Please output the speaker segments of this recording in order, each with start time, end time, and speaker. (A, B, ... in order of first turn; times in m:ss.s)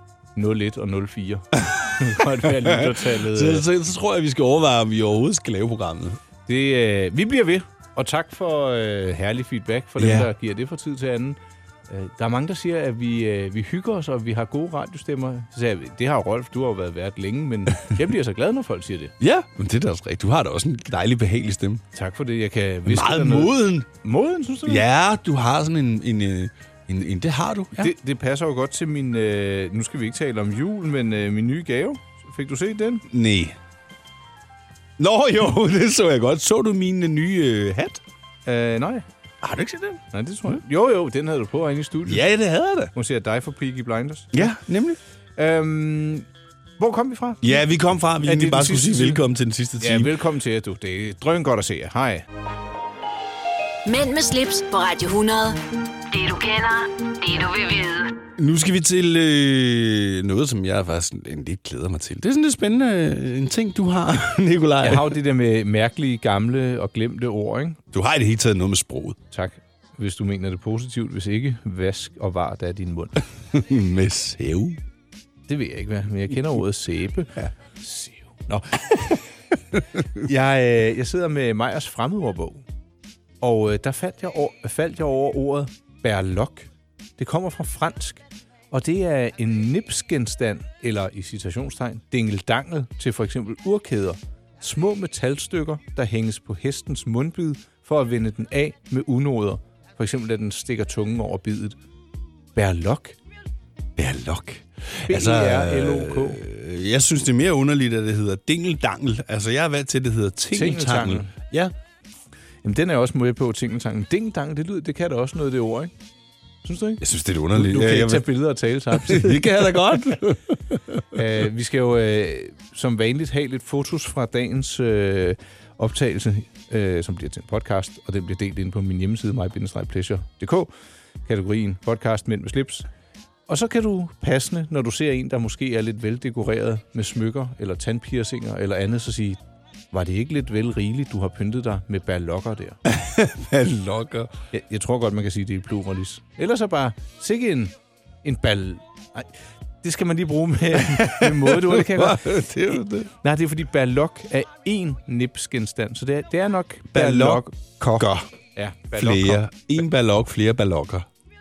0:00.4-0:03.7 A
0:01.6-0:06.2 B
0:06.5-0:11.4 A
0:10.0-0:10.3 B
0:11.9-0:19.1 A
0:19.2-0:21.8 B
0:21.9-0:24.8 A
0:22.9-0:23.9 B
0:24.7-0:27.9 B
0:27.8-0:33.0 A
0:33.1-0:33.6 B
0:35.0-0:38.0 B
0:38.5-0:39.1 A
0:39.4-0:40.5 B
0:40.1-0:42.3 A
0:42.1-0:42.9 B
0:42.9-0:44.6 A
0:44.3-0:45.0 B
0:45.4-0:46.3 A
0:46.8-0:47.5 A
0:47.4-0:50.1 B
0:48.2-0:49.3 A
0:49.8-0:52.3 A
0:53.8-0:58.2 C
0:58.4-1:05.2 B
1:04.8-1:07.8 A
1:07.9-1:09.2 B
1:09.3-1:13.2 A
1:13.5-1:14.8 B
1:15.5-1:19.2 A
1:20.2-1:22.6 A
1:23.4-1:41.8 A
1:42.6-1:43.2 A
1:44.0-1:51.7 B
1:45.1-1:46.4 A
1:50.5-1:51.3 A
1:52.6-1:55.9 A
1:56.6-1:57.0 A
1:57.0-1:58.3 B
1:57.5-2:00.0 A
1:58.9-2:01.0 B
2:01.1-2:10.7 A
2:11.3-2:12.9 A
2:13.5-2:19.4 A
2:19.9-2:22.8 A
2:22.9-2:24.3 B
2:24.5-2:39.5 A
2:30.8-2:33.1 B
2:36.9-2:38.3 B
2:38.9-2:41.1 B